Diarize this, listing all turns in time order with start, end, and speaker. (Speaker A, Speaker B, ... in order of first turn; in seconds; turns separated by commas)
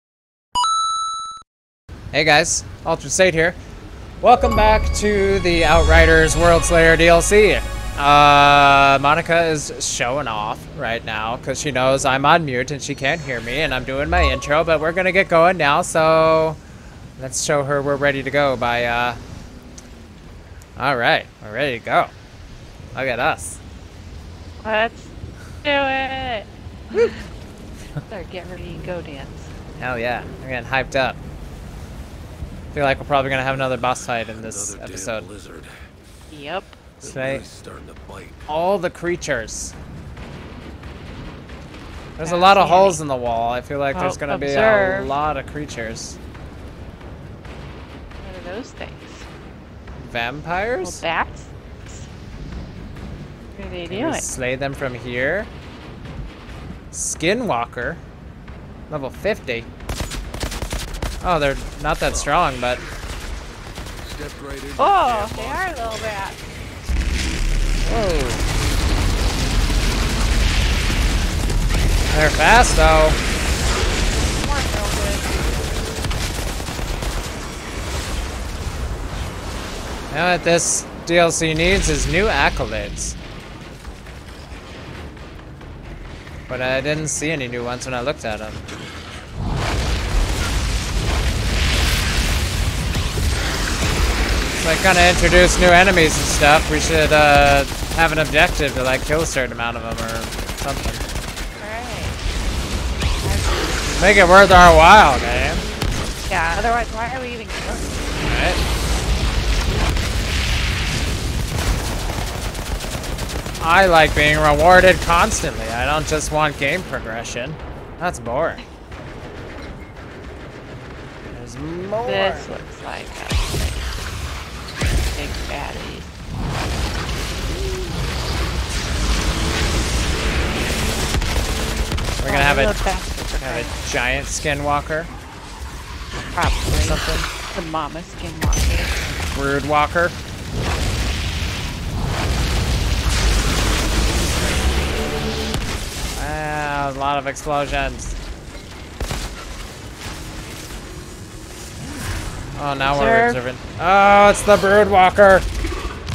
Speaker A: 2.1-3.6, Speaker A: 4.2-16.6, Speaker A: 17.2-19.2, Speaker A: 20.8-22.1, Speaker A: 22.9-23.6, Speaker B: 24.6-25.1, Speaker B: 25.6-27.3, Speaker B: 28.1-29.5, Speaker A: 29.8-31.2, Speaker A: 32.7-35.3, Speaker C: 33.8-35.9, Speaker B: 36.3-36.8, Speaker C: 37.0-38.4, Speaker A: 37.0-37.5, Speaker A: 38.5-39.8, Speaker A: 42.2-46.2, Speaker B: 42.2-43.0, Speaker B: 43.9-45.1, Speaker B: 48.2-49.3, Speaker A: 50.0-51.0, Speaker B: 50.8-52.1, Speaker B: 53.5-54.3, Speaker A: 53.9-55.5, Speaker A: 56.9-58.0, Speaker A: 58.9-59.7, Speaker A: 61.2-62.8, Speaker C: 62.0-63.0, Speaker C: 64.0-66.4, Speaker B: 64.8-66.4, Speaker A: 67.8-68.5, Speaker A: 72.1-73.2, Speaker B: 74.2-75.3, Speaker A: 80.1-83.2, Speaker A: 86.5-88.6, Speaker A: 94.6-101.0, Speaker B: 101.6-102.2, Speaker B: 103.2-104.1, Speaker A: 103.9-105.6, Speaker B: 106.3-108.0, Speaker A: 108.2-108.6, Speaker A: 113.6-118.6, Speaker A: 121.3-122.5, Speaker B: 122.0-123.9, Speaker B: 125.0-126.1, Speaker A: 132.2-135.1, Speaker B: 132.2-133.8, Speaker B: 136.3-138.9, Speaker A: 136.8-137.3, Speaker A: 139.0-140.2, Speaker A: 146.2-148.2, Speaker A: 152.6-155.5, Speaker B: 152.9-153.4